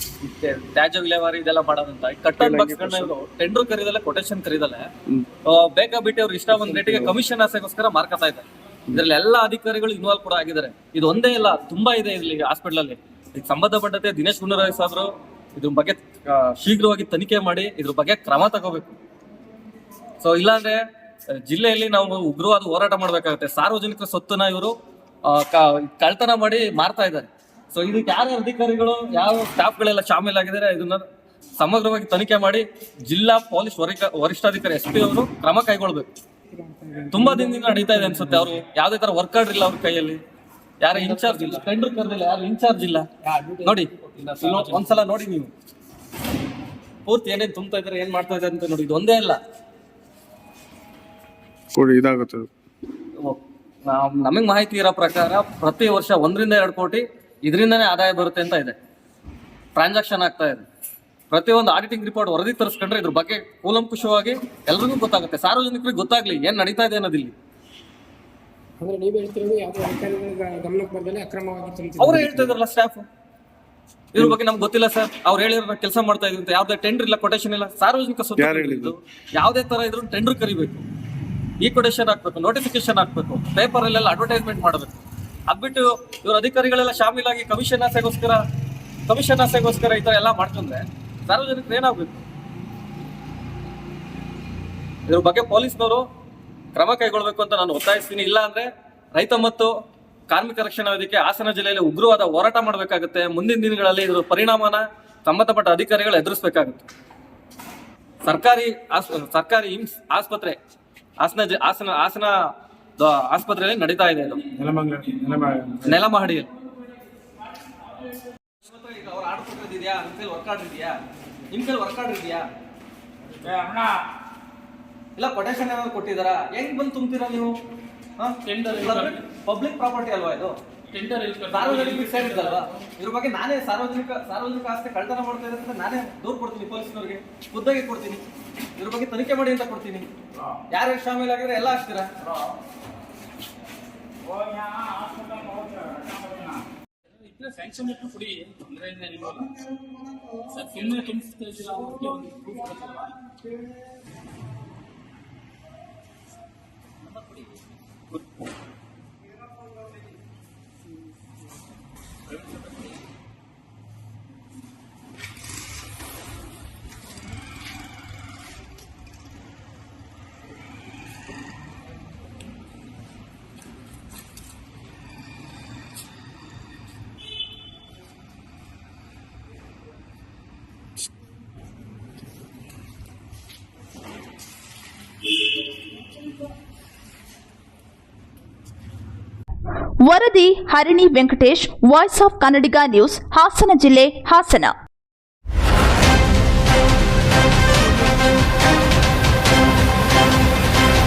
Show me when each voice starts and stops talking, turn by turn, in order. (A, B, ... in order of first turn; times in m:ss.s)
0:00.2-0:04.9 A
0:02.4-0:03.1 B
0:05.4-0:19.0 A
0:06.5-0:07.1 B
0:20.2-0:20.8 A
0:21.3-0:24.7 A
0:25.2-0:31.0 A
0:31.6-0:36.0 A
0:36.5-0:38.4 C
0:37.1-0:40.2 A
0:40.8-0:43.1 A
0:40.9-0:41.6 D
0:43.2-0:45.0 D
0:43.6-0:45.5 A
0:47.0-0:49.4 A
0:51.7-0:52.5 B
0:53.2-0:58.7 A
0:59.8-1:00.6 A
1:01.3-1:07.3 A
1:08.8-1:12.6 C
1:12.0-1:13.0 A
1:14.1-1:20.8 A
1:18.4-1:18.9 B
1:21.6-1:28.4 A
1:29.1-1:32.2 A
1:35.1-1:36.0 A
1:36.7-1:39.7 A
1:40.3-1:46.8 A
1:48.2-1:50.6 A
1:51.2-1:52.3 A
1:53.0-1:54.4 A
1:54.6-1:56.0 B
1:55.8-1:56.5 A
1:58.6-2:01.0 A
2:01.5-2:02.4 A
2:03.4-2:03.9 D
2:05.2-2:07.5 A
2:08.2-2:10.6 A
2:08.4-2:09.2 D
2:10.9-2:12.7 D
2:11.5-2:18.2 A
2:18.8-2:20.1 A
2:20.7-2:22.1 A
2:24.3-2:26.5 D
2:27.2-2:29.5 D
2:30.5-2:32.9 D
3:10.0-3:14.7 E